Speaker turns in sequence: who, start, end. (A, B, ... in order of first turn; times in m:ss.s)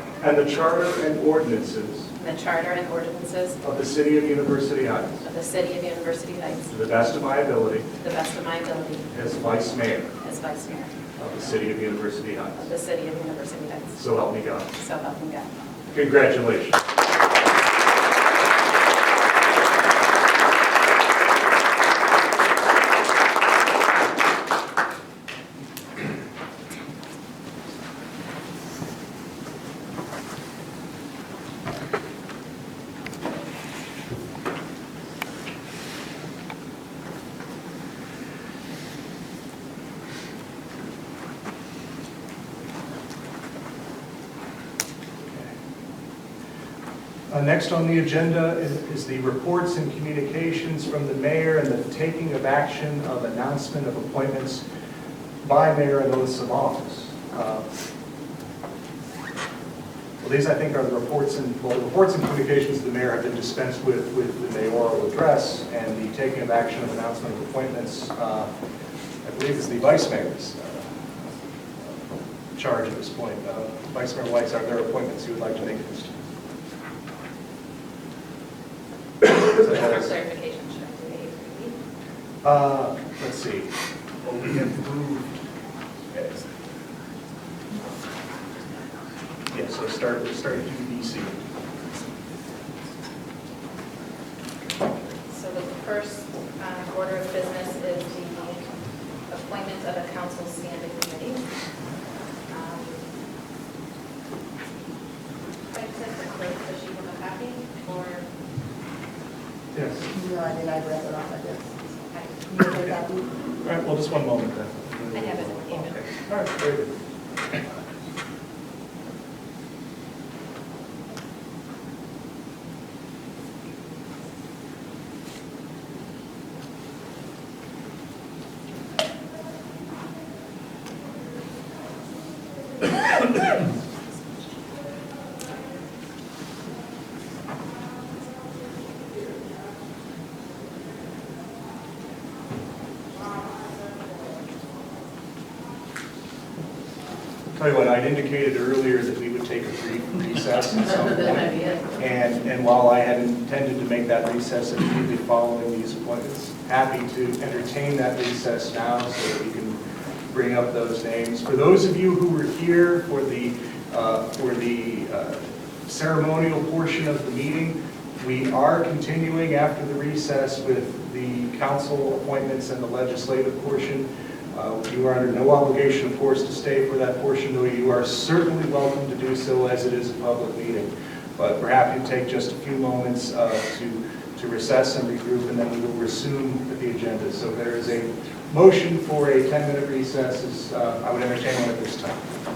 0:00.2-0:02.1 A
0:02.2-0:03.6 B
0:03.6-0:05.2 A
0:05.2-0:06.7 B
0:06.7-0:07.9 A
0:08.0-0:09.1 B
0:09.1-0:10.1 A
0:10.2-0:10.9 B
0:11.2-0:12.7 A
0:12.6-0:14.0 B
0:14.0-0:14.7 A
0:14.7-0:15.5 B
0:15.9-0:16.8 A
0:45.2-0:45.5 A
0:47.3-0:54.6 A
0:55.4-0:57.7 A
1:00.2-1:08.5 A
1:09.2-1:10.9 A
1:12.6-1:16.2 A
1:19.3-1:21.8 B
1:19.6-1:20.1 A
1:22.4-1:23.7 A
1:24.2-1:25.4 A
1:26.1-1:26.4 A
1:29.5-1:31.4 A
1:35.3-1:38.6 B
1:39.3-1:41.4 B
1:42.5-1:43.0 B
1:45.7-1:48.3 B
1:49.7-1:50.1 A
1:50.1-1:51.7 C
1:52.0-1:52.6 B
1:52.5-1:53.3 C
1:53.6-1:56.9 A
1:55.1-1:56.0 B
2:27.5-2:39.8 A
2:31.1-2:32.0 B
2:40.3-3:12.2 A